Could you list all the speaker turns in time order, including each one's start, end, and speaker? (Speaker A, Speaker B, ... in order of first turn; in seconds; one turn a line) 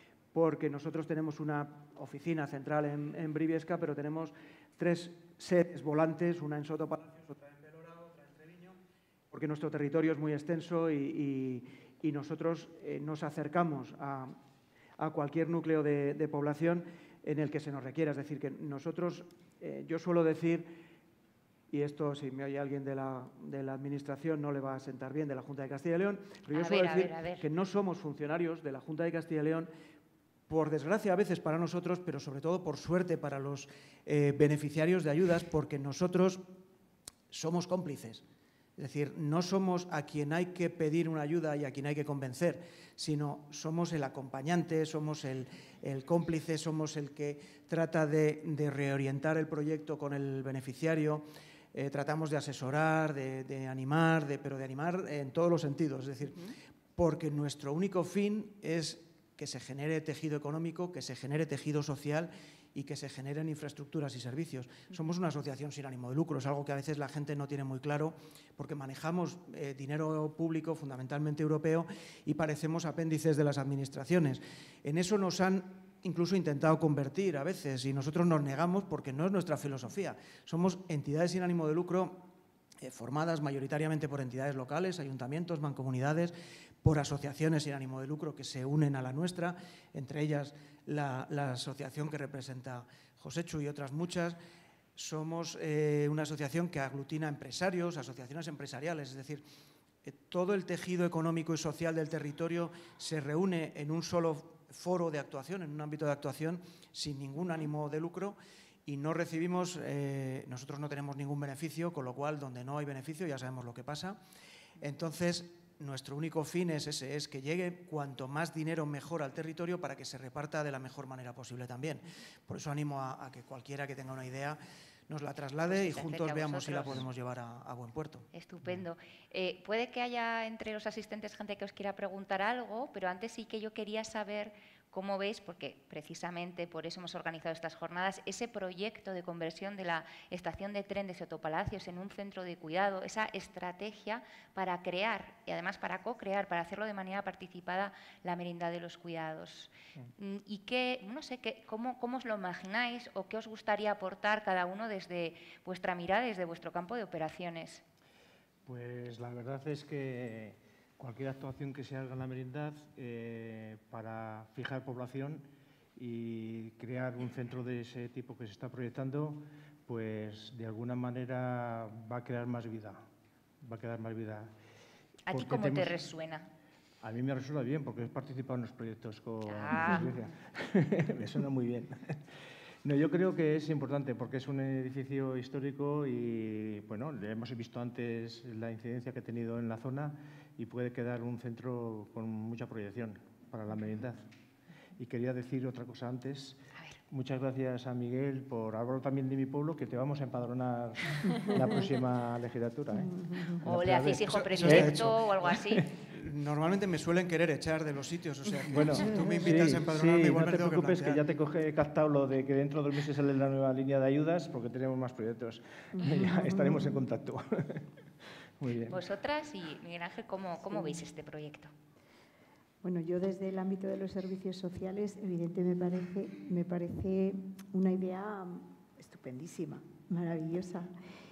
Speaker A: 0.3-8.8
Speaker A: 9.3-14.4
Speaker A: 15.0-20.7
Speaker A: 21.7-29.7
Speaker B: 26.5-27.4
Speaker A: 30.5-36.4
Speaker A: 37.3-38.2
Speaker A: 38.8-82.2
Speaker A: 82.8-94.4
Speaker A: 95.0-99.4
Speaker A: 100.0-114.2
Speaker A: 114.8-128.3
Speaker B: 125.7-127.0
Speaker B: 128.3-157.8
Speaker C: 158.7-173.0
Speaker C: 173.6-174.5
Speaker B: 175.3-176.5
Speaker C: 175.3-175.9
Speaker C: 177.0-182.2
Speaker B: 179.5-180.2
Speaker C: 182.8-194.2
Speaker C: 195.0-205.8
Speaker D: 203.0-203.5
Speaker B: 203.6-205.9
Speaker A: 204.3-205.2
Speaker A: 205.9-211.2
Speaker C: 208.6-217.9
Speaker D: 215.9-217.0
Speaker C: 218.6-219.0
Speaker B: 218.9-221.7
Speaker D: 222.8-230.9